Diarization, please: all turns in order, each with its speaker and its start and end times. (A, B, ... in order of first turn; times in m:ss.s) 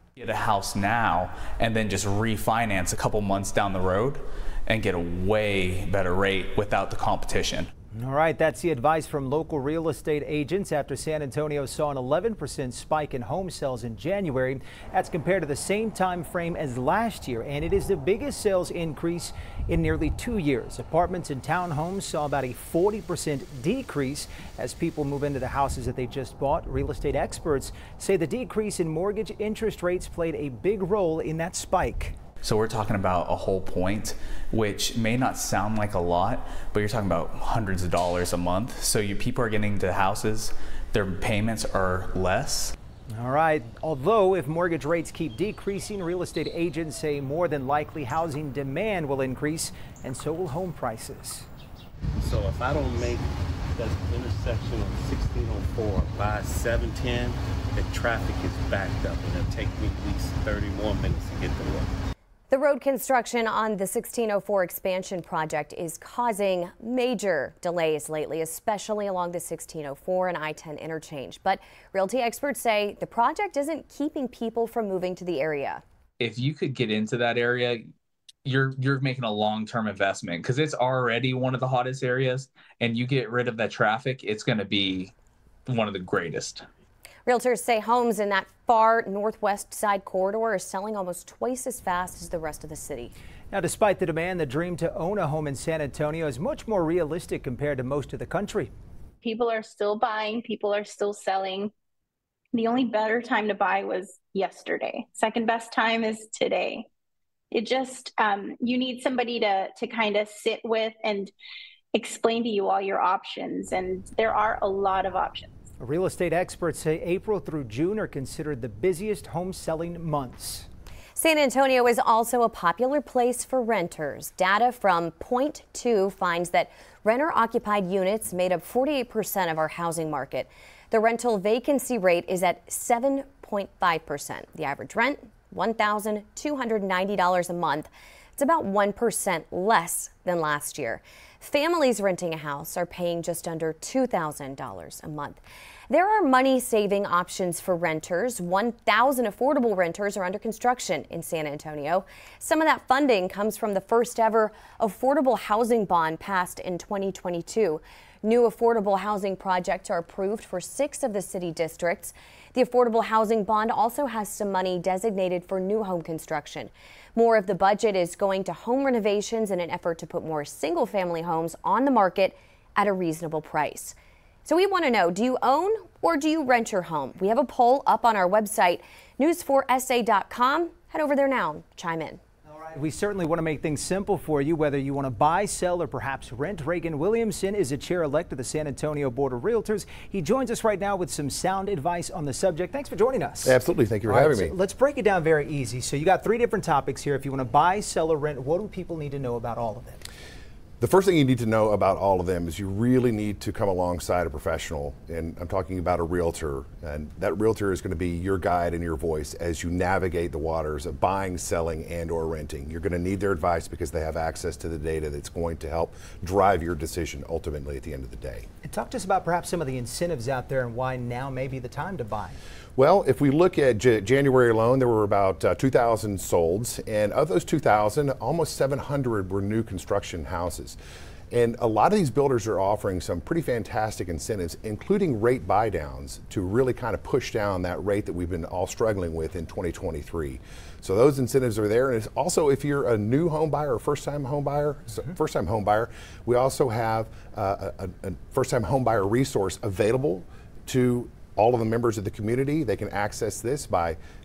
0:00.2-0:07.7 A
0:07.9-0:32.2 B
0:32.4-0:42.7 A
0:43.1-0:51.5 B
0:52.2-1:01.9 C
1:02.5-1:15.8 D
1:16.2-1:17.8 A
1:18.4-1:25.1 A
1:25.6-1:26.6 A
1:27.2-1:33.1 D
1:33.5-1:38.7 B
1:39.2-1:41.7 E
1:42.5-1:46.9 E
1:47.5-1:51.3 E
1:51.9-1:55.5 E
1:55.8-2:00.7 B
2:01.2-2:53.9 D
2:54.4-3:02.2 D
3:02.6-3:13.5 B
3:13.4-3:14.5 F
3:14.0-3:20.0 B
3:20.8-3:38.5 F
3:38.6-3:42.4 B
3:42.8-3:50.8 F
3:51.3-4:14.0 F